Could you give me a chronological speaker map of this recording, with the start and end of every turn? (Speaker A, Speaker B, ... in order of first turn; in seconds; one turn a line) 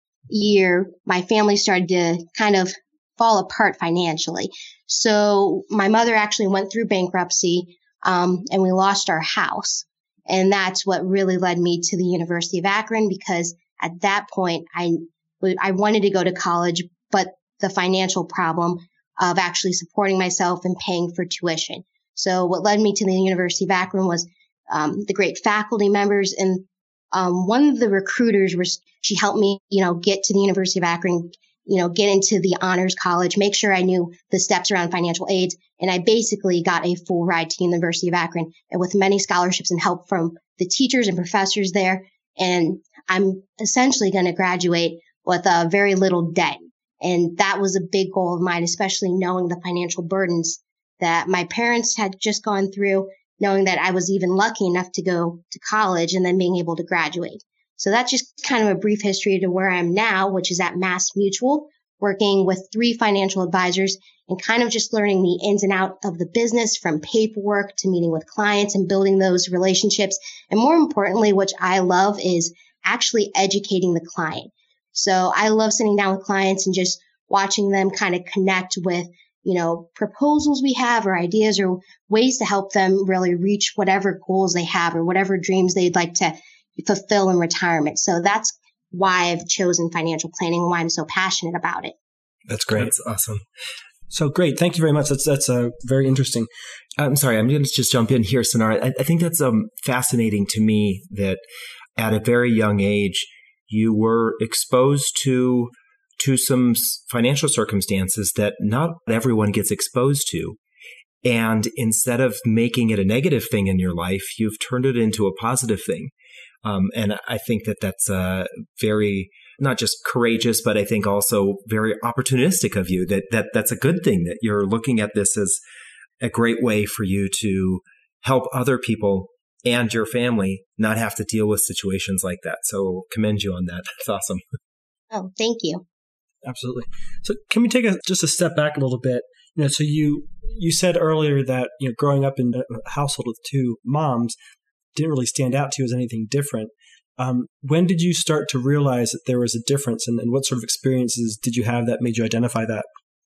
Speaker A: 0.3-92.0
Speaker B: 92.5-92.9
Speaker C: 92.7-93.4
Speaker B: 94.1-96.5
Speaker C: 97.0-101.4
Speaker C: 102.0-110.6
Speaker C: 111.2-116.1
Speaker C: 116.6-125.6
Speaker C: 126.2-134.4
Speaker A: 135.1-135.8
Speaker B: 136.4-144.3
Speaker B: 144.9-152.8